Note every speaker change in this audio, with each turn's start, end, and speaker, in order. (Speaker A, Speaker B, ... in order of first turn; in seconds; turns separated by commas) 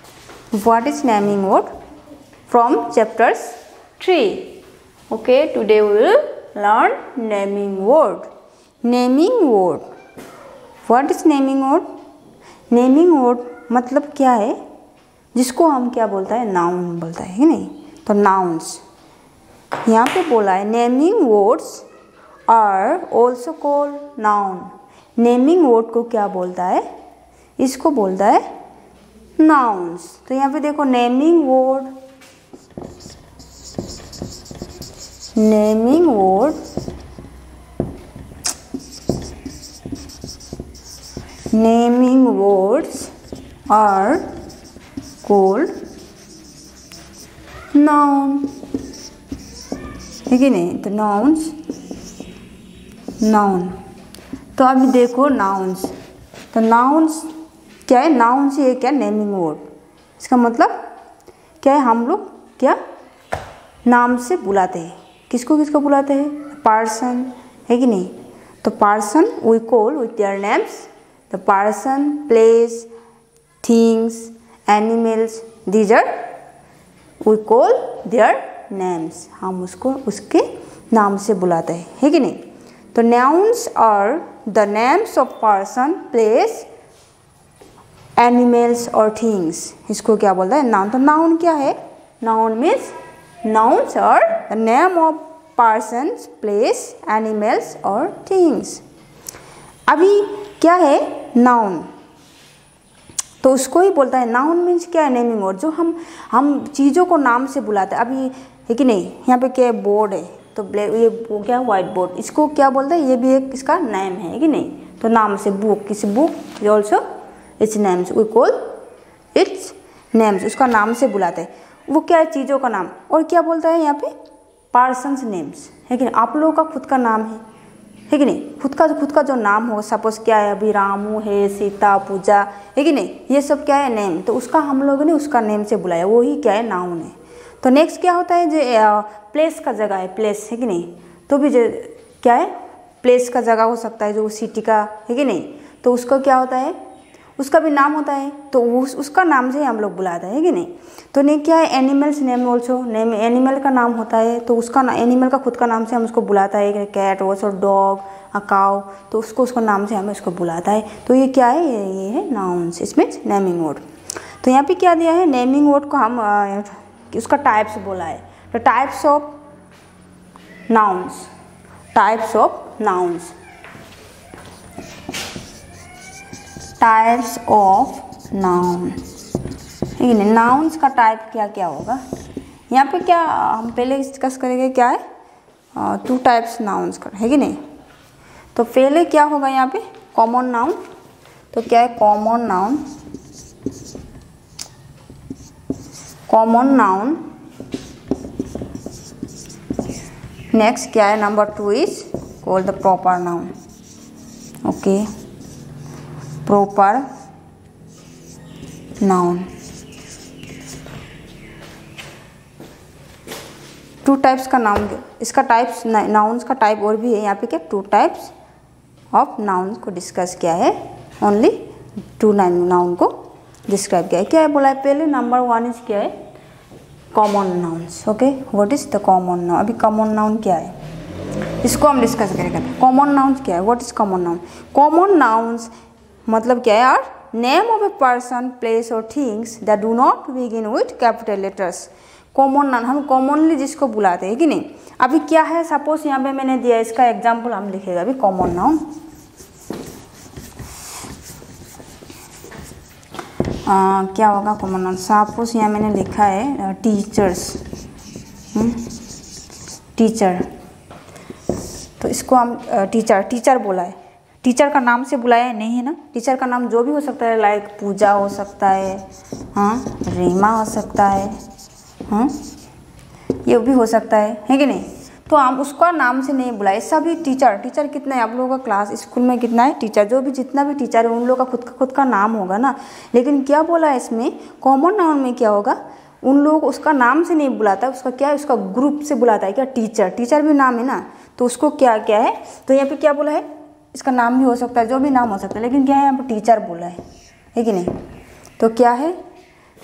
Speaker A: 0.5-1.7, Speaker A: 2.5-4.6, Speaker A: 5.1-8.3, Speaker A: 8.8-9.8, Speaker A: 10.8-11.9, Speaker A: 12.7-14.6, Speaker A: 15.3-18.8, Speaker A: 19.9-21.9, Speaker A: 22.5-26.8, Speaker A: 27.6-28.4, Speaker A: 29.4-31.9, Speaker A: 35.3-36.6, Speaker A: 41.5-43.1, Speaker A: 43.7-44.3, Speaker A: 45.2-45.7, Speaker A: 47.7-48.5, Speaker A: 50.3-51.5, Speaker A: 53.2-53.8, Speaker A: 54.5-55.9, Speaker A: 56.5-57.3, Speaker A: 57.9-59.7, Speaker A: 60.2-60.8, Speaker A: 61.6-62.8, Speaker A: 63.9-72.9, Speaker A: 73.6-76.2, Speaker A: 77.2-82.4, Speaker A: 82.9-86.7, Speaker A: 88.2-98.8, Speaker A: 99.9-101.9, Speaker A: 103.4-117.0, Speaker A: 117.6-118.7, Speaker A: 119.3-124.1, Speaker A: 124.7-127.4, Speaker A: 128.1-146.8, Speaker A: 147.4-163.8, Speaker A: 164.4-169.3, Speaker A: 170.7-171.3, Speaker A: 171.9-173.3, Speaker A: 176.8-179.0, Speaker A: 180.0-182.0, Speaker A: 182.7-185.0, Speaker A: 185.7-187.6, Speaker A: 188.5-190.8, Speaker A: 191.5-192.8, Speaker A: 196.3-197.2, Speaker A: 200.5-203.5, Speaker A: 204.6-205.1, Speaker A: 206.4-207.1, Speaker A: 209.0-209.5, Speaker A: 214.0-218.3, Speaker A: 219.1-221.6, Speaker A: 222.2-223.1, Speaker A: 223.7-226.1, Speaker A: 227.1-230.7, Speaker A: 231.6-235.7, Speaker A: 236.2-248.9, Speaker A: 253.7-257.6, Speaker A: 258.5-258.9, Speaker A: 259.9-260.5, Speaker A: 262.0-271.4, Speaker A: 272.1-272.4, Speaker A: 273.4-297.0, Speaker A: 297.5-297.9, Speaker A: 298.6-299.1